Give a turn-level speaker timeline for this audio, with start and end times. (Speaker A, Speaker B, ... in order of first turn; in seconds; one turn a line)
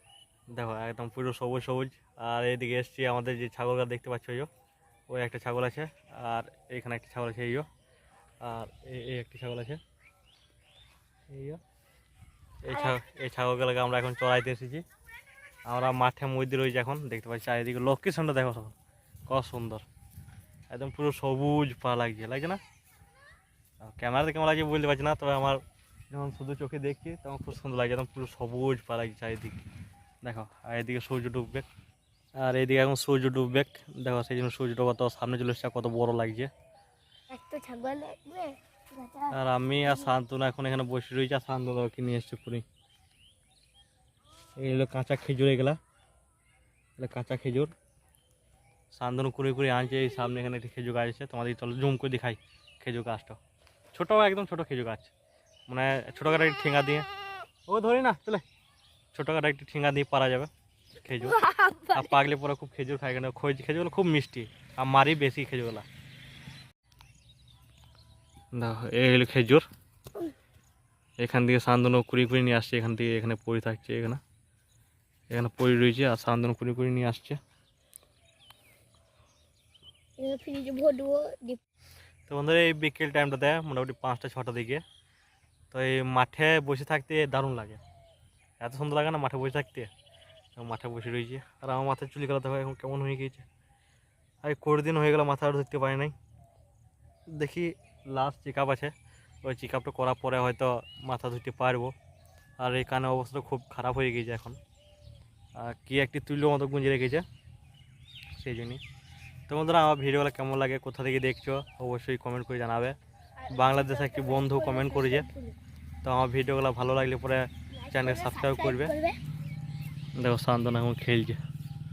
Speaker A: 0.5-4.5
Speaker A: 5.1-7.7
Speaker A: 8.4-9.8
Speaker A: 11.3-11.6
Speaker A: 12.6-14.8
Speaker B: 12.7-12.9
Speaker A: 15.7-18.7
Speaker A: 19.3-19.8
Speaker A: 20.7-22.6
Speaker A: 23.8-29.6
Speaker A: 30.2-31.6
Speaker A: 32.4-36.5
Speaker B: 37.3-40.1
Speaker A: 39.3-42.6
Speaker A: 44.6-45.8
Speaker A: 47.0-47.7
Speaker A: 48.9-53.4
Speaker A: 53.9-55.1
Speaker A: 55.7-57.1
Speaker A: 57.7-58.4
Speaker A: 59.1-60.5
Speaker A: 61.0-65.8
Speaker B: 61.2-62.1
Speaker A: 68.5-69.6
Speaker A: 71.2-74.2
Speaker A: 75.3-77.4
Speaker B: 80.2-81.6
Speaker A: 82.3-84.8
Speaker A: 85.7-87.8
Speaker A: 88.6-89.9
Speaker A: 90.5-93.4
Speaker A: 94.4-96.1
Speaker A: 97.3-101.9
Speaker A: 102.6-104.6
Speaker A: 105.5-107.2
Speaker A: 108.3-108.8
Speaker A: 109.5-113.0
Speaker B: 113.4-115.5
Speaker A: 113.5-115.2
Speaker A: 116.0-118.9
Speaker B: 117.8-119.2
Speaker A: 120.2-121.4